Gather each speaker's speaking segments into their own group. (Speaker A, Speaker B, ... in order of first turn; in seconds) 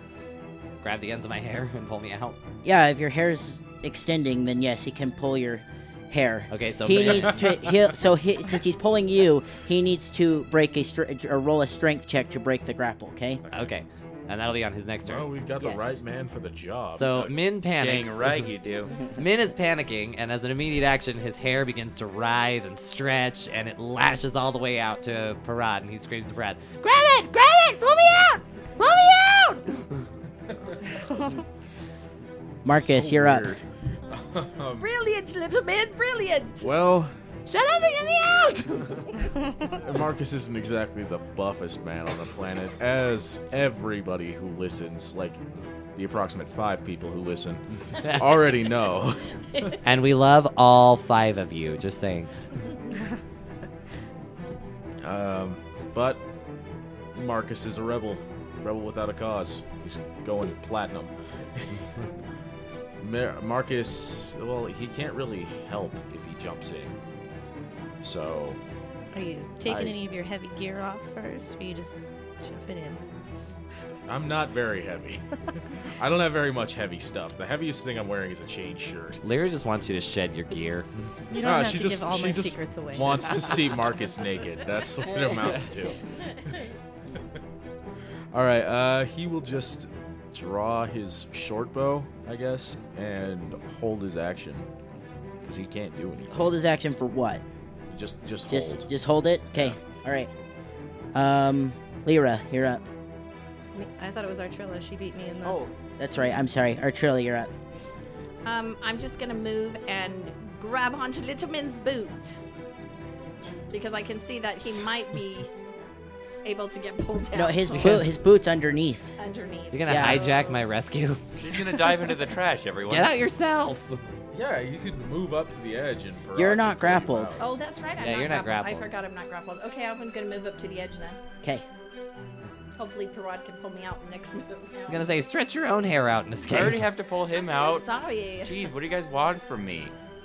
Speaker A: 0.8-2.4, 6.5-7.8, 13.5-15.4, 16.9-18.5, 19.2-29.9, 37.5-39.1, 48.0-48.5, 49.8-52.3, 79.2-80.9, 83.3-83.6, 119.7-122.2, 122.9-124.0, 128.0-128.9, 134.9-136.9
Speaker B: 2.6-13.4, 15.6-16.0, 32.6-33.5, 96.3-97.4, 98.5-100.3, 101.2-102.9, 105.4-107.5, 117.3-119.2, 119.9-120.2, 126.3-127.4
Speaker C: 13.4-13.7, 17.1-19.0, 121.4-123.2, 136.5-137.9, 138.4-139.9
Speaker D: 15.0-17.1, 30.5-30.9, 32.6-34.9, 36.6-37.1, 39.8-45.4, 46.0-49.8, 55.0-56.2, 57.1-61.8, 63.0-67.0, 68.0-68.6, 74.1-79.2, 81.3-86.0, 88.3-94.7, 95.4-96.5, 97.9-98.9, 124.3-127.5
Speaker E: 31.0-31.4, 39.4-39.7, 69.1-73.0, 81.3-83.3, 103.7-105.6
Speaker F: 34.8-36.7, 108.5-112.4, 113.7-115.5, 116.4-118.1, 119.2-120.6, 127.4-131.2, 132.8-135.1, 137.3-138.5